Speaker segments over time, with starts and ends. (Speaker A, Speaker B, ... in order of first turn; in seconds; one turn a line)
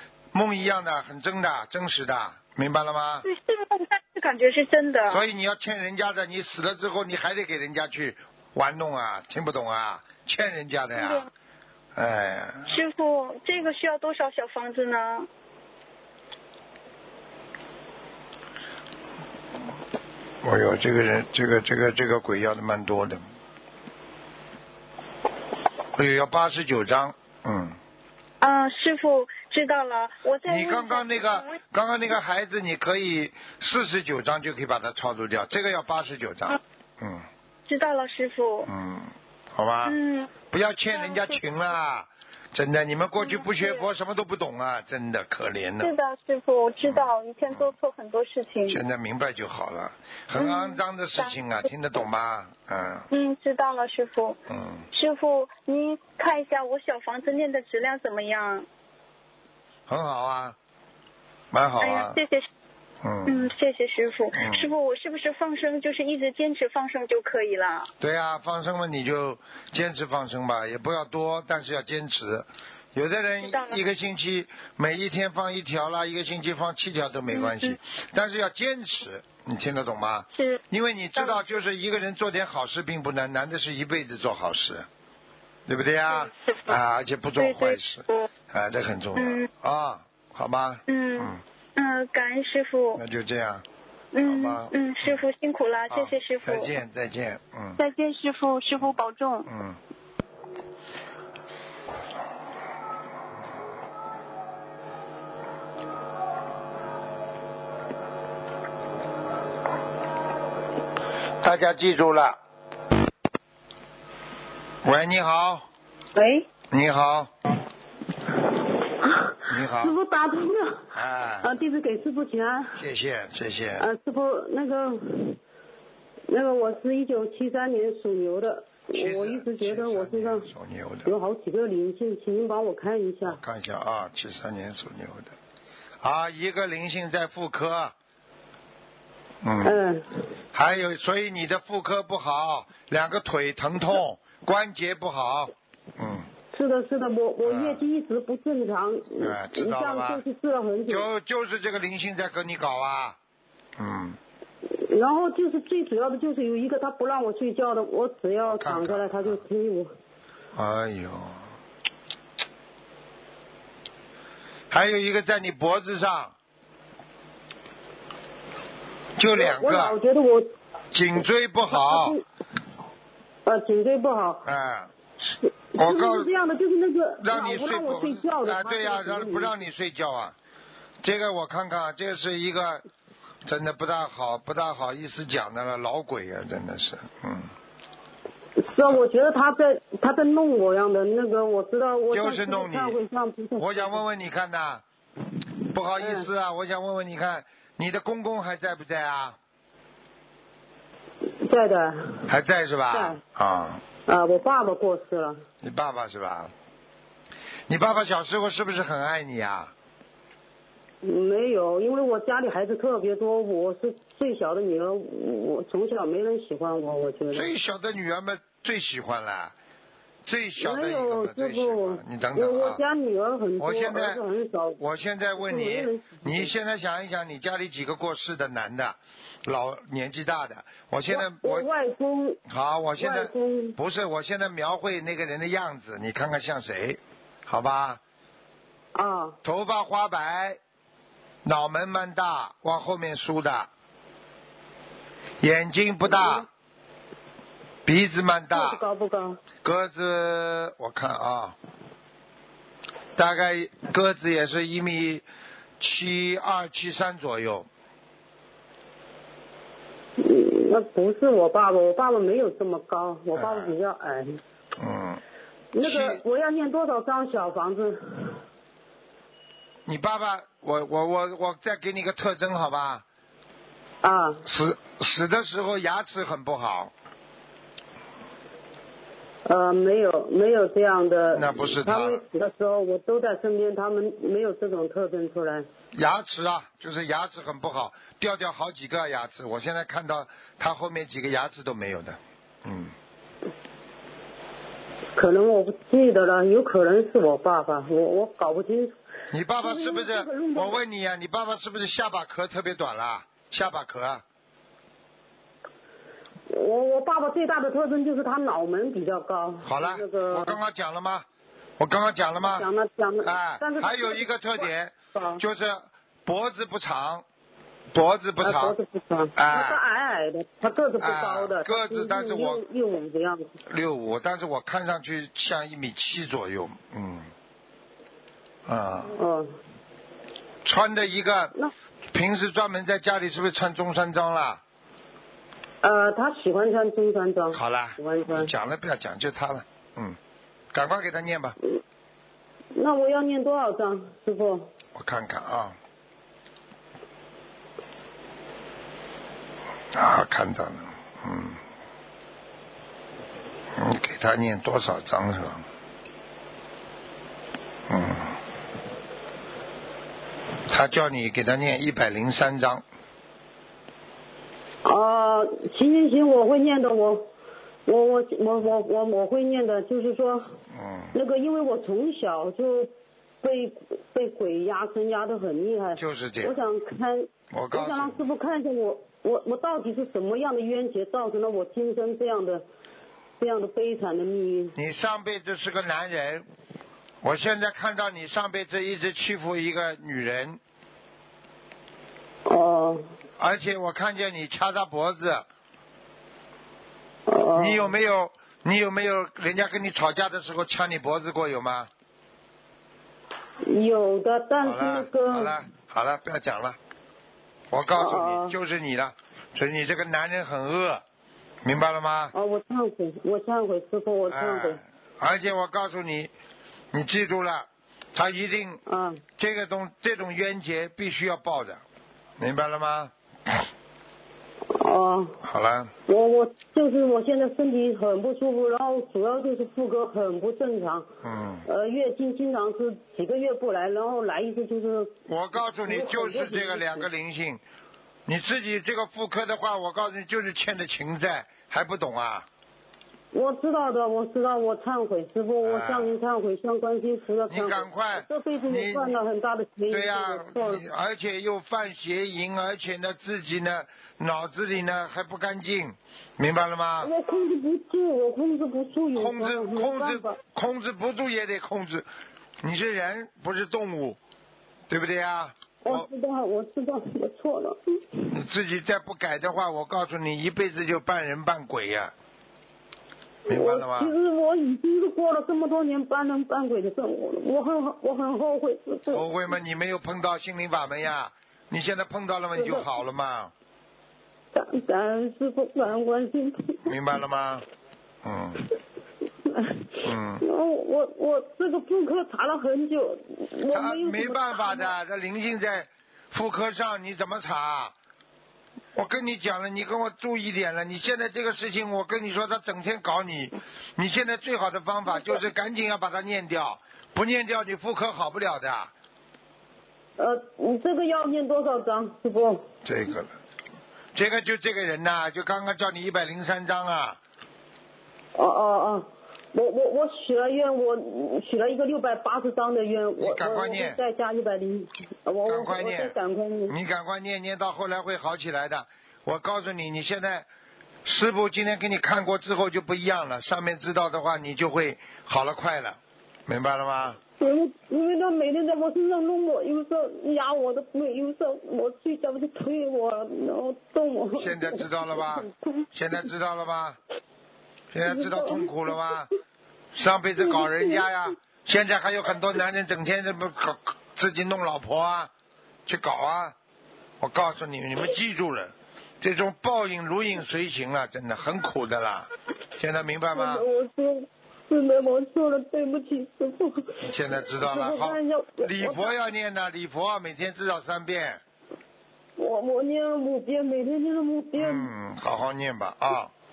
Speaker A: 0.3-3.3
Speaker B: 3.2-5.2
Speaker A: 5.1-11.3
Speaker B: 10.9-11.3
Speaker A: 11.9-12.8
Speaker B: 12.7-15.3
Speaker A: 20.4-23.2
Speaker A: 25.9-27.8
Speaker B: 28.4-31.5
Speaker A: 30.4-37.2
Speaker B: 37.7-38.7
Speaker A: 38.7-45.9
Speaker B: 39.8-40.3
Speaker B: 41.0-41.3
Speaker B: 43.2-43.8
Speaker B: 45.8-48.8
Speaker A: 46.8-47.7
Speaker A: 48.7-53.1
Speaker B: 50.4-51.3
Speaker B: 53.1-54.4
Speaker A: 54.5-54.9
Speaker B: 54.9-58.7
Speaker A: 59.9-60.5
Speaker A: 61.5-62.2
Speaker B: 61.8-62.4
Speaker A: 63.0-63.5
Speaker B: 63.2-67.9
Speaker A: 64.3-64.7
Speaker A: 68.0-84.9
Speaker B: 73.4-73.8
Speaker B: 77.3-77.7
Speaker A: 85.7-91.4
Speaker B: 87.4-88.3
Speaker B: 89.2-89.5
Speaker B: 90.9-93.0
Speaker A: 93.0-93.6
Speaker B: 94.1-96.7
Speaker A: 94.2-95.2
Speaker A: 95.9-97.8
Speaker B: 97.8-99.5
Speaker A: 99.5-99.8
Speaker A: 111.4-112.4
Speaker A: 114.8-115.6
Speaker C: 116.2-116.4
Speaker A: 116.7-117.3
Speaker C: 119.1-120.9
Speaker A: 119.5-119.9
Speaker A: 120.9-121.6
Speaker C: 121.4-122.8
Speaker A: 122.7-123.9
Speaker C: 123.8-125.4
Speaker C: 126.3-130.5
Speaker A: 128.9-131.1
Speaker C: 131.1-133.4
Speaker A: 133.2-135.3
Speaker A: 136.0-137.9
Speaker A: 139.4-139.8
Speaker C: 139.6-140.1
Speaker A: 140.5-146.3
Speaker C: 146.5-151.1
Speaker A: 147.4-147.8
Speaker A: 149.2-150.2
Speaker A: 150.9-153.2
Speaker A: 153.8-154.2
Speaker C: 154.7-159.9
Speaker A: 158.4-159.4
Speaker A: 160.5-161.4
Speaker A: 164.7-166.3
Speaker A: 169.2-170.0
Speaker C: 169.3-170.5
Speaker A: 170.9-172.2
Speaker C: 171.7-172.2
Speaker C: 173.4-174.4
Speaker A: 174.4-174.9
Speaker C: 175.4-179.6
Speaker A: 175.8-176.3
Speaker A: 177.2-180.3
Speaker A: 181.0-182.8
Speaker A: 183.4-187.5
Speaker C: 188.6-194.0
Speaker A: 192.1-193.0
Speaker A: 193.6-194.8
Speaker A: 195.7-199.4
Speaker C: 196.0-196.3
Speaker C: 201.4-202.2
Speaker A: 202.3-203.8
Speaker C: 202.9-203.2
Speaker C: 204.1-205.4
Speaker A: 205.6-206.5
Speaker A: 207.7-209.7
Speaker C: 211.0-217.5
Speaker A: 217.3-219.5
Speaker A: 220.2-222.8
Speaker C: 220.6-224.8
Speaker A: 223.6-224.2
Speaker A: 224.8-231.7
Speaker C: 225.4-226.5
Speaker C: 231.1-232.4
Speaker A: 232.5-238.0
Speaker C: 233.0-233.8
Speaker C: 238.9-239.4
Speaker A: 239.4-240.6
Speaker A: 241.4-243.7
Speaker A: 245.4-246.5
Speaker C: 246.1-246.4
Speaker A: 247.8-248.8
Speaker C: 248.5-249.4
Speaker A: 249.6-251.6
Speaker A: 253.2-255.2
Speaker A: 255.8-257.7
Speaker C: 260.2-264.4
Speaker A: 263.3-263.7
Speaker A: 264.8-265.2
Speaker C: 265.7-268.4
Speaker A: 265.8-266.2
Speaker A: 269.9-273.0
Speaker C: 274.0-274.4
Speaker A: 274.4-276.9
Speaker C: 279.4-285.7
Speaker A: 281.3-282.2
Speaker A: 285.9-292.9
Speaker C: 295.1-298.9
Speaker A: 299.3-304.2
Speaker C: 299.6-300.8
Speaker C: 306.5-310.6
Speaker A: 309.6-311.2
Speaker A: 311.8-312.6
Speaker C: 312.4-314.3
Speaker A: 313.2-317.2
Speaker C: 315.1-315.4
Speaker A: 317.9-318.8
Speaker C: 318.4-323.5
Speaker A: 319.4-319.8
Speaker A: 321.0-322.6
Speaker A: 323.6-327.3
Speaker A: 328.6-329.1
Speaker C: 329.1-329.5
Speaker A: 330.6-331.5
Speaker A: 332.1-334.6
Speaker C: 335.8-338.5
Speaker A: 337.5-340.2
Speaker A: 340.7-341.6
Speaker C: 342.7-344.7
Speaker A: 344.9-345.8
Speaker A: 349.9-351.6
Speaker A: 353.7-355.6
Speaker A: 357.9-358.4
Speaker A: 360.7-362.8
Speaker C: 364.8-367.3
Speaker C: 367.9-370.6
Speaker A: 370.7-371.1
Speaker C: 371.1-372.9
Speaker C: 373.4-382.6
Speaker A: 375.9-376.6
Speaker A: 377.5-378.2
Speaker C: 383.4-384.7
Speaker A: 384.7-386.4
Speaker A: 387.2-390.6
Speaker C: 392.4-393.1
Speaker A: 393.4-395.4
Speaker C: 397.3-397.9
Speaker A: 397.5-401.9
Speaker C: 403.6-405.5
Speaker A: 404.6-406.8
Speaker A: 407.7-411.0
Speaker C: 407.9-408.6
Speaker A: 411.6-412.3
Speaker C: 412.3-414.8
Speaker A: 414.3-416.3
Speaker A: 416.9-418.8
Speaker C: 418.9-419.2
Speaker A: 419.4-421.8
Speaker A: 422.4-423.7
Speaker C: 424.7-425.4
Speaker A: 425.4-425.9
Speaker C: 426.1-431.1
Speaker A: 431.2-431.6
Speaker C: 431.6-435.1
Speaker A: 435.3-437.6
Speaker C: 435.8-437.1
Speaker A: 438.2-442.5
Speaker C: 443.3-450.8
Speaker A: 445.6-446.1
Speaker A: 447.5-449.1
Speaker A: 449.9-457.1
Speaker C: 457.0-460.4
Speaker A: 459.1-462.1
Speaker A: 462.6-464.2
Speaker A: 464.9-466.1
Speaker C: 465.8-468.3
Speaker A: 468.3-472.1
Speaker C: 473.5-479.5
Speaker A: 473.5-474.1
Speaker A: 479.1-483.5
Speaker C: 482.6-482.9
Speaker C: 484.5-486.9
Speaker A: 486.8-487.6
Speaker A: 488.2-488.6
Speaker C: 489.5-489.9
Speaker A: 490.0-490.4
Speaker C: 490.4-494.9
Speaker A: 493.7-497.9
Speaker A: 498.9-508.9
Speaker C: 510.2-512.6
Speaker A: 512.8-513.3
Speaker A: 514.1-517.2
Speaker C: 518.3-526.7
Speaker A: 523.2-524.0
Speaker A: 525.5-526.1
Speaker A: 526.7-530.5
Speaker A: 531.0-537.2
Speaker C: 537.4-545.5
Speaker A: 544.4-547.0
Speaker A: 547.9-549.3
Speaker C: 548.1-548.9
Speaker A: 549.9-555.3
Speaker C: 550.4-551.0
Speaker A: 555.9-556.5
Speaker A: 557.2-563.6
Speaker C: 563.3-569.1
Speaker A: 567.0-571.4
Speaker C: 572.4-574.9
Speaker A: 574.6-576.3